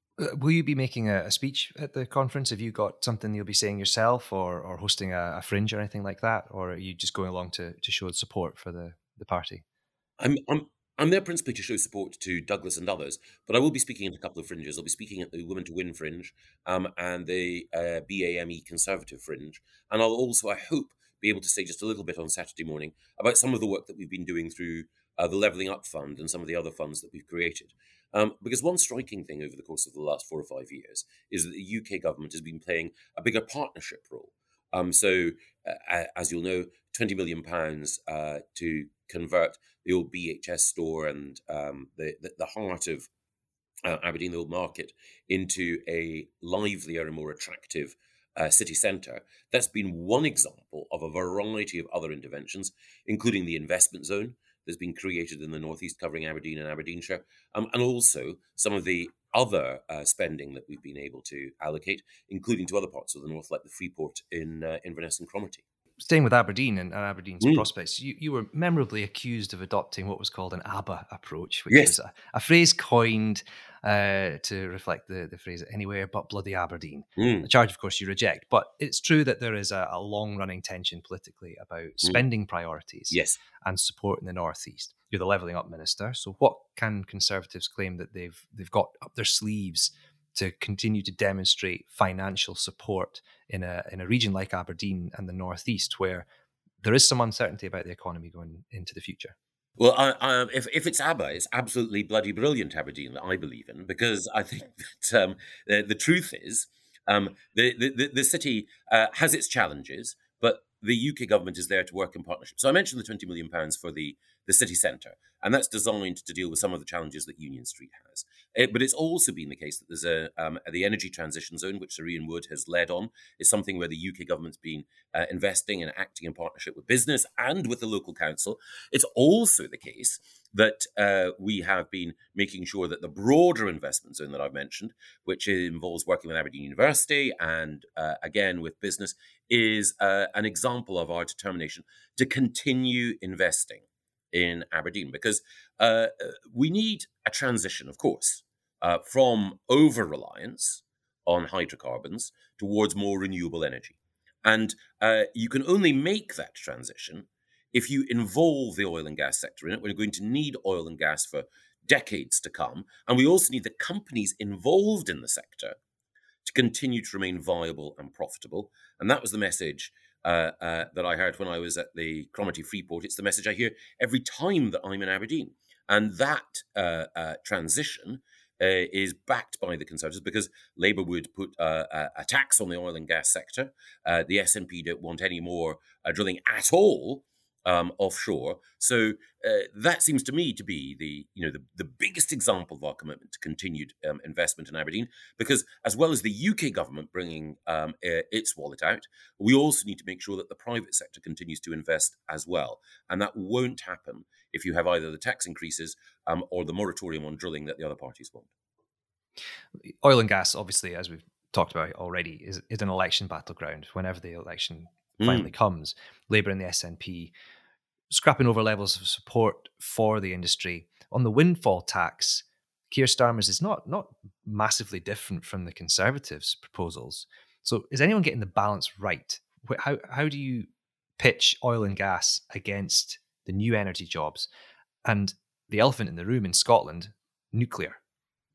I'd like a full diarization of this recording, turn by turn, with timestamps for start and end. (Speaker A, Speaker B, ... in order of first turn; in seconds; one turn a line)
Speaker A: 0.2-9.7
Speaker B: 10.2-43.1
Speaker B: 43.9-65.6
Speaker A: 66.0-96.3
Speaker B: 77.2-77.5
Speaker B: 83.1-83.4
Speaker A: 96.8-99.4
Speaker B: 99.8-165.8
Speaker B: 166.4-208.5
Speaker A: 209.9-217.3
Speaker B: 215.2-215.5
Speaker A: 218.1-230.7
Speaker A: 231.2-234.5
Speaker A: 235.0-238.0